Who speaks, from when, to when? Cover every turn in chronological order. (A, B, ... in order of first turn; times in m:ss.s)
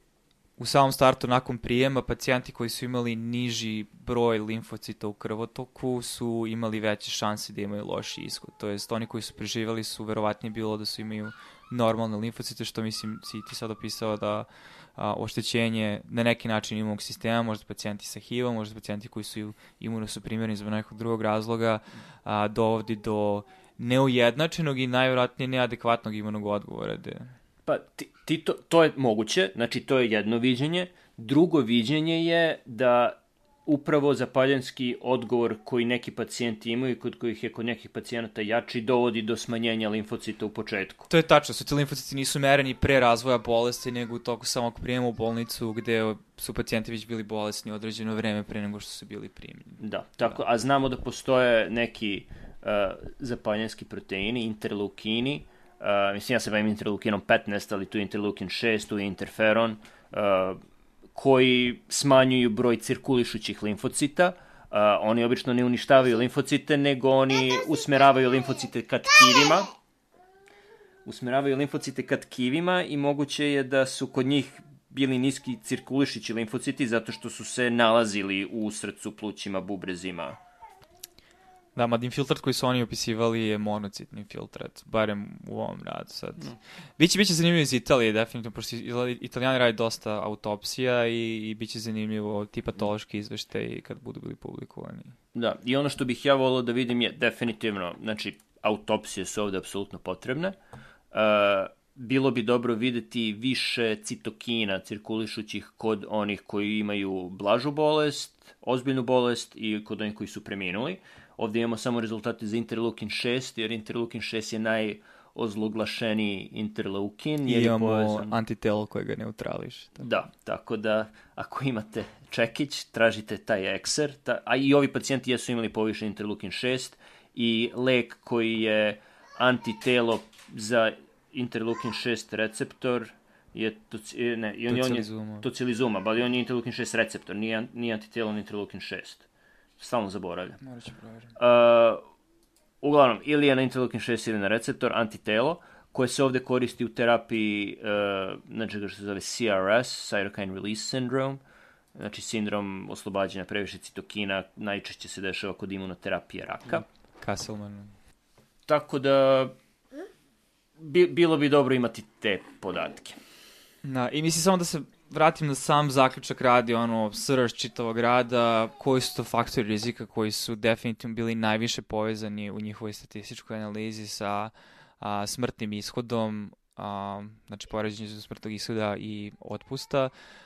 0:00.6-0:27.3 A
0:27.6-0:41.1 B
0:41.1-0:50.4 A
0:49.8-1:00.6 B
1:01.1-1:09.7 B
1:11.0-1:20.4 B
1:21.7-1:35.2 A
1:35.3-1:40.6 B
1:41.1-1:58.3 B
1:57.4-2:00.0 A
2:00.0-2:19.3 B
2:14.7-2:15.4 A
2:19.8-2:20.6 B
2:20.6-2:21.4 A
2:21.4-2:22.0 B
2:22.8-2:31.4 B
2:31.9-2:36.8 B
2:36.7-2:37.9 A
2:38.7-2:39.5 B
2:40.8-2:43.2 B
2:43.8-3:00.1 A